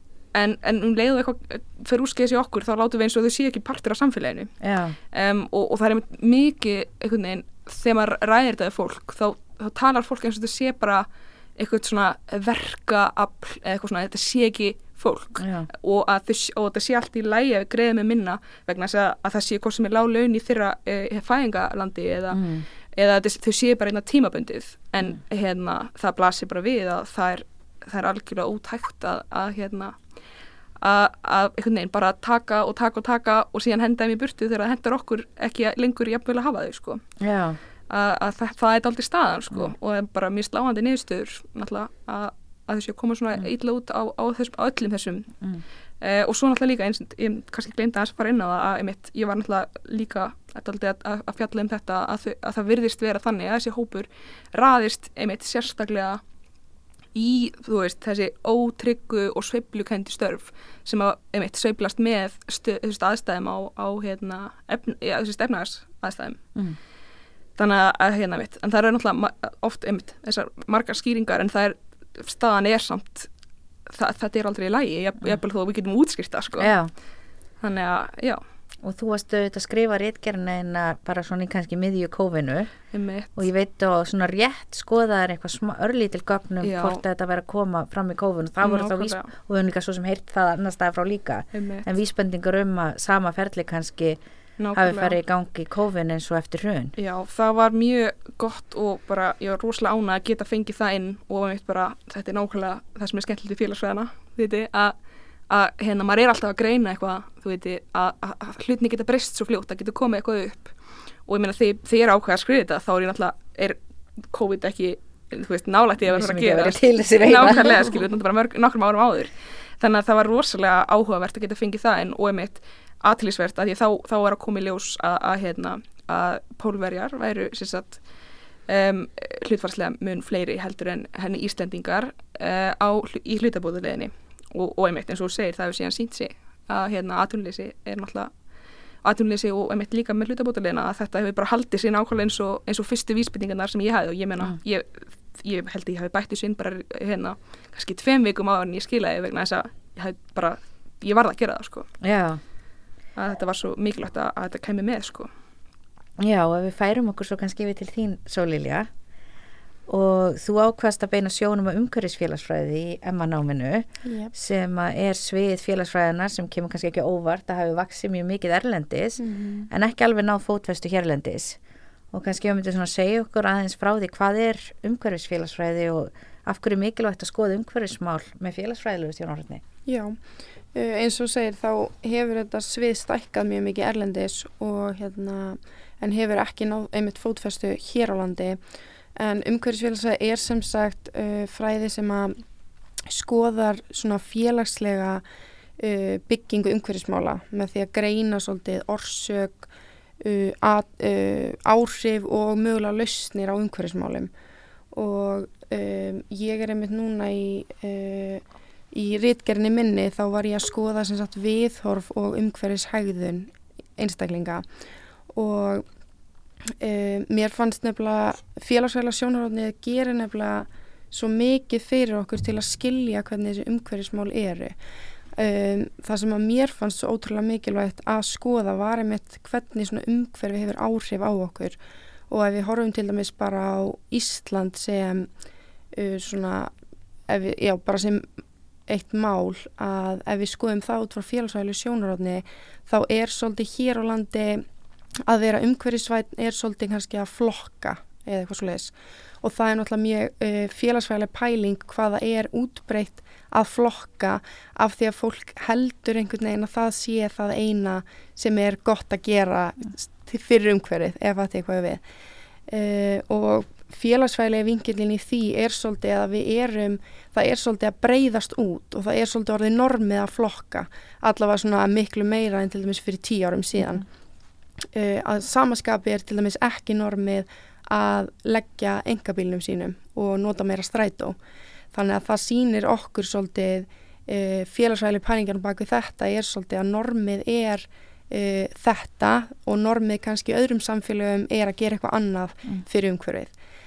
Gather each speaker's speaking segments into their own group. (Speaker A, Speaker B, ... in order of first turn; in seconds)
Speaker A: 0.3-4.5, 5.1-30.0, 30.8-37.0, 37.9-45.3, 46.0-56.2, 57.1-66.4, 67.6-73.3, 73.9-76.7, 77.6-78.4, 82.9-83.4, 86.6-87.0, 88.6-89.3, 91.5-91.8, 94.6-95.2, 97.0-105.0, 105.5-110.8, 111.3-113.8, 114.3-128.0, 128.7-138.3, 139.0-151.9, 153.2-155.3
Speaker B: 4.6-5.0, 15.4-15.7, 22.3-22.6, 37.2-37.6, 76.6-76.9, 78.8-82.7, 83.3-94.2, 94.8-96.9, 116.1-117.7, 152.0-152.4, 156.2-158.9, 159.9-171.6, 172.1-179.6
Speaker C: 164.1-164.3, 169.2-169.7, 179.9-180.2, 180.7-188.6, 189.2-192.4, 193.1-195.2, 195.8-199.7, 200.2-204.3, 204.9-214.6, 215.3-215.8, 216.8-224.8, 225.4-231.8, 232.3-235.3, 235.9-236.7, 237.3-238.3, 238.9-244.7, 245.3-262.0, 262.7-274.1, 274.9-281.4, 281.9-293.5